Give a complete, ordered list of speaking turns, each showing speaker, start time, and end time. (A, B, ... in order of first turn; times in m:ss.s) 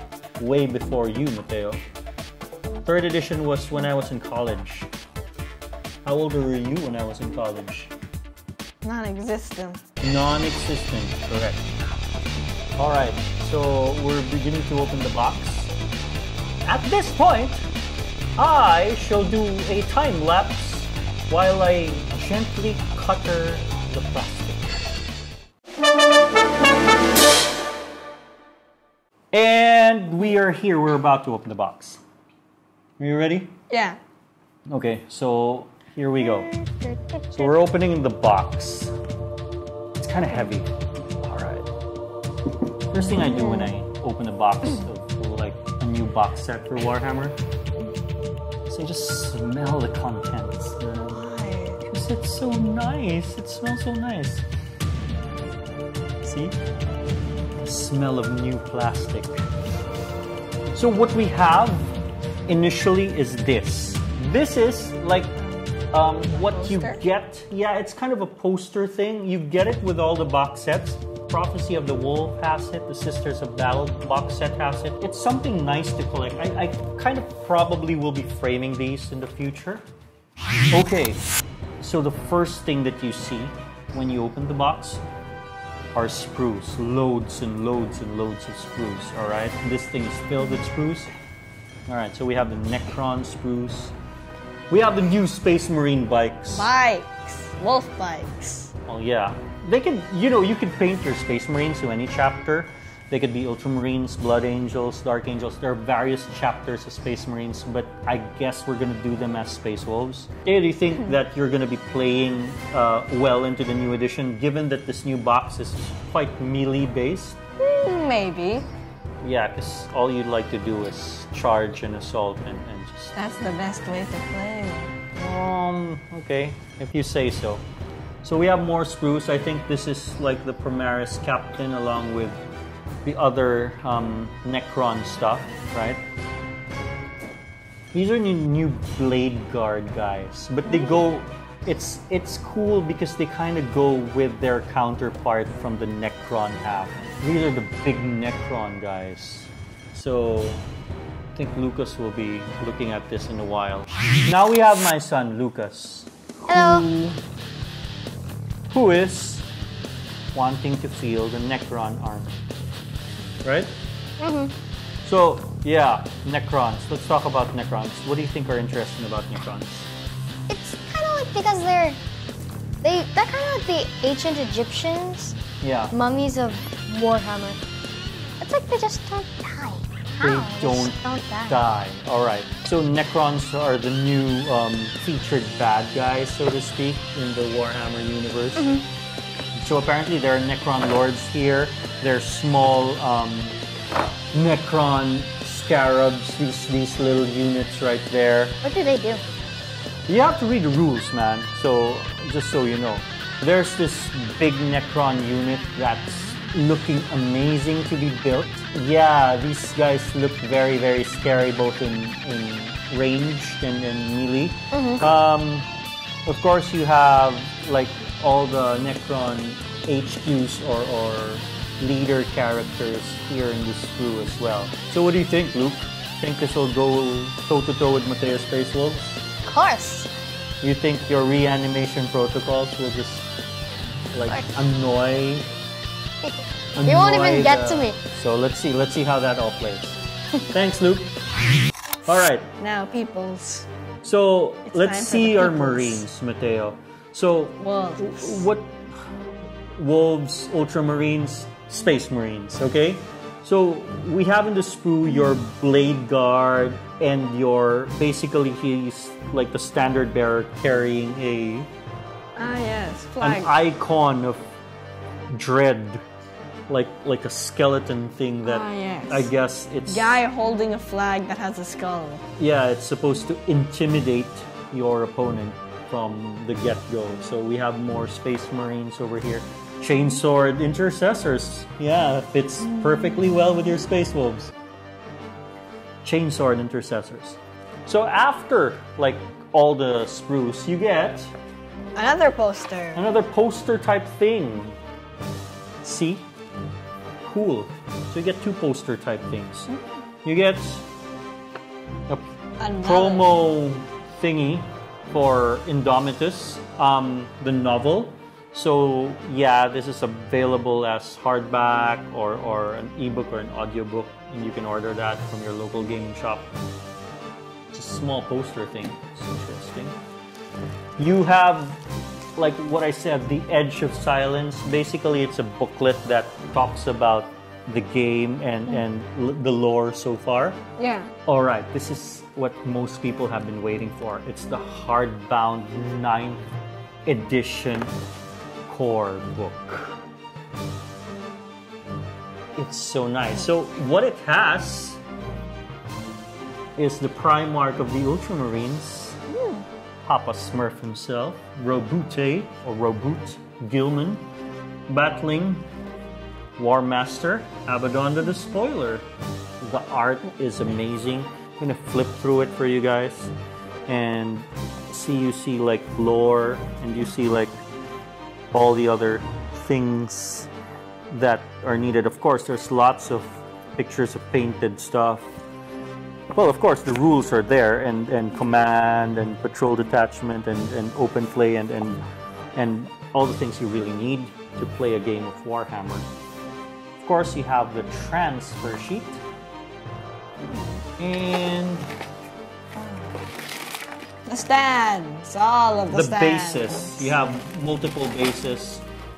0:00.4-0:01.8 A
0:02.8-0:04.9 A
0:06.0-0:07.9 A
0:08.8-0:09.8 B
0:10.0-0:11.7 A
0:12.8-0:15.7 A
0:16.6-0:17.6 A
0:18.4-0:24.8 A
0:29.3-0:32.0 A
0:33.0-0:33.5 A
0:33.7-0:34.0 B
0:34.7-0:36.6 A
0:36.6-0:37.4 C
0:37.3-0:38.9 A
0:40.0-0:41.7 A
0:42.9-0:47.4 A
0:48.7-0:51.2 A
0:50.9-0:51.8 B
0:51.8-0:54.4 A
0:56.2-0:56.6 A
0:57.6-0:59.4 A
1:00.7-1:05.3 A
1:05.9-1:19.8 A
1:06.3-1:07.0 B
1:20.7-1:21.2 A
1:21.8-1:25.0 A
1:25.9-1:31.1 A
1:31.9-1:33.9 A
1:34.7-1:36.7 A
1:36.5-1:38.7 B
1:38.9-1:57.4 A
1:57.6-1:58.7 B
1:59.2-2:03.1 A
2:03.1-2:04.9 B
2:05.1-2:07.6 A
2:08.2-2:12.4 A
2:13.0-2:16.0 A
2:17.9-2:30.6 A
2:31.3-2:37.2 A
2:36.5-2:36.8 C
2:38.7-2:39.5 A
2:40.3-2:42.3 A
2:43.4-2:43.7 A
2:44.2-2:44.5 C
2:45.0-2:49.9 A
2:50.5-2:52.0 C
2:52.8-2:55.4 C
2:55.6-2:56.0 A
2:55.9-2:57.6 C
2:58.4-3:01.6 C
3:00.2-3:08.8 A
3:08.6-3:08.8 C
3:09.6-3:13.6 A
3:14.3-3:18.6 A
3:18.6-3:19.2 C
3:20.1-3:35.7 A
3:34.7-3:35.0 C
3:36.2-3:49.2 A
3:49.4-3:50.1 C
3:50.6-3:53.3 A
3:54.1-3:55.5 A
3:56.2-3:58.0 C
3:56.7-4:01.2 A
4:02.1-4:02.5 A
4:02.6-4:03.7 B
4:04.0-4:08.9 A
4:04.7-4:06.0 B
4:07.6-4:08.5 B
4:09.7-4:21.7 A
4:22.4-4:23.6 B
4:23.2-4:24.5 A
4:25.3-4:26.0 A
4:26.7-4:30.2 A
4:28.4-4:29.3 B
4:29.9-4:32.2 B
4:32.4-4:44.5 A
4:46.0-4:51.3 A
4:52.0-4:53.0 B
4:52.9-4:54.8 A
4:55.8-4:56.3 A
4:57.2-4:59.7 A
5:00.2-5:00.8 A
5:02.6-5:03.3 B
5:02.8-5:16.5 A
5:17.7-5:19.9 A
5:21.0-5:21.8 A
5:22.4-5:30.6 A
5:30.8-5:31.1 B
5:31.2-5:36.4 A
5:37.0-5:37.9 A
5:38.7-5:40.0 A
5:42.6-5:45.0 A
5:46.8-5:49.2 A
5:49.3-5:49.6 B
5:50.0-5:54.2 A
5:54.9-5:55.7 A
5:56.6-5:59.0 A
5:59.6-6:03.3 A
6:03.9-6:07.6 A
6:08.5-6:10.5 A
6:11.1-6:15.3 A
6:16.3-6:22.0 A
6:22.5-6:26.1 A
6:27.0-6:29.2 A
6:30.4-6:30.8 B
6:31.0-6:31.9 A
6:32.8-6:33.2 B
6:34.2-6:37.1 B
6:35.9-6:38.8 A